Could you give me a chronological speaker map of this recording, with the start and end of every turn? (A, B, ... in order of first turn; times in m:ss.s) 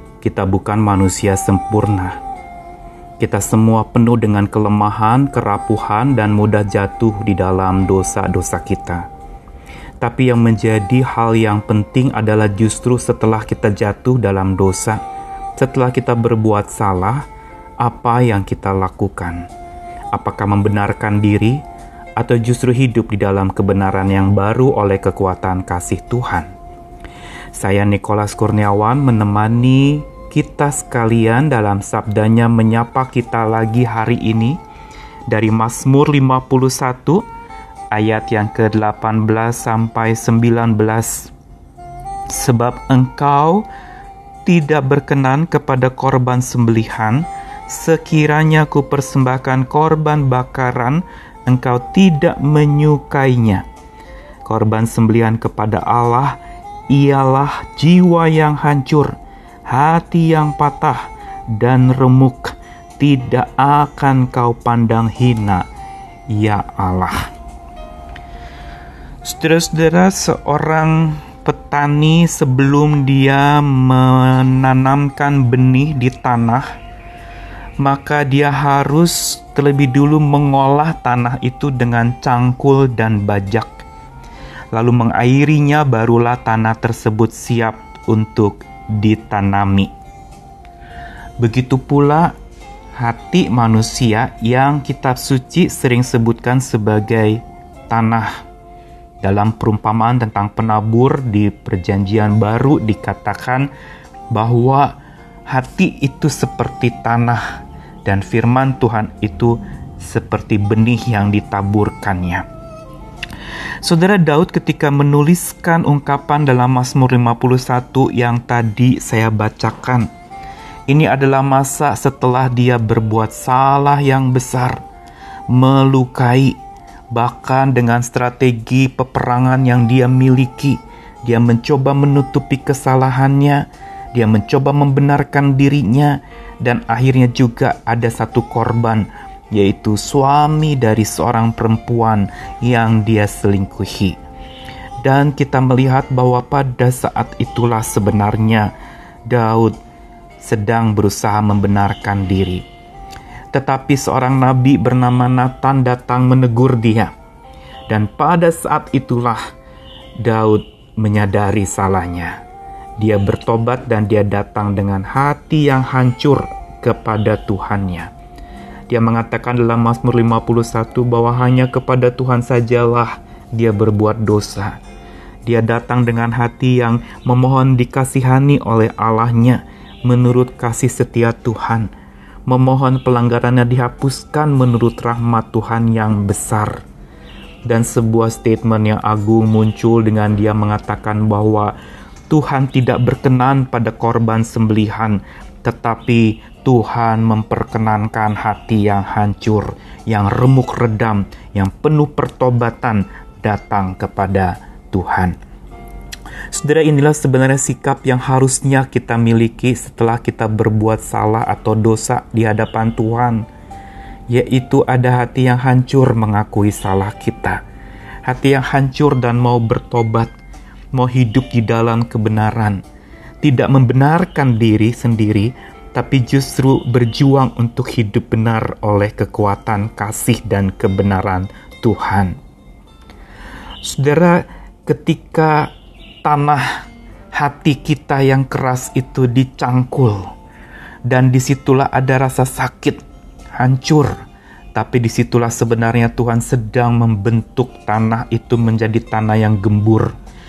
0:00.2-0:02.2 A
0:03.2-0:09.0 A
0:10.0-0:15.0 A
0:15.6-0:17.2 A
0:17.8-0:19.4 A
0:20.1-0:21.6 A
0:22.2-0:26.5 A
0:27.6-0:34.6 A
0:35.3-0:37.2 A
0:37.9-0:41.3 A
0:42.3-0:43.7 A
0:44.5-0:53.6 A
0:54.5-0:56.4 A
0:56.9-0:59.2 A
0:59.7-1:05.7 A
1:06.3-1:07.3 A
1:09.2-1:16.7 A
1:17.8-1:23.8 A
1:24.7-1:29.9 A
1:31.4-1:32.3 A
1:33.0-1:38.4 A
1:39.2-1:43.7 A
1:44.3-1:45.0 A
1:45.5-1:52.4 A
1:53.8-2:00.1 A
2:00.9-2:04.8 A
2:05.5-2:06.6 A
2:07.1-2:24.2 A
2:25.0-2:28.7 A
2:29.3-2:29.8 A
2:30.4-2:32.6 A
2:33.5-2:37.1 A
2:37.9-2:39.4 A
2:40.2-2:42.4 A
2:43.0-2:48.1 A
2:48.9-2:54.8 A
2:55.5-3:01.9 A
3:02.5-3:06.8 A
3:07.7-3:11.7 A
3:12.3-3:25.4 A
3:26.5-3:33.4 A
3:34.3-3:37.6 A
3:38.3-3:40.3 A
3:40.9-3:42.8 A
3:43.4-3:52.4 A
3:53.8-3:55.7 A
3:56.2-3:56.8 A
3:57.3-4:00.3 A
4:01.1-4:03.0 A
4:03.6-4:04.2 A
4:04.8-4:10.1 A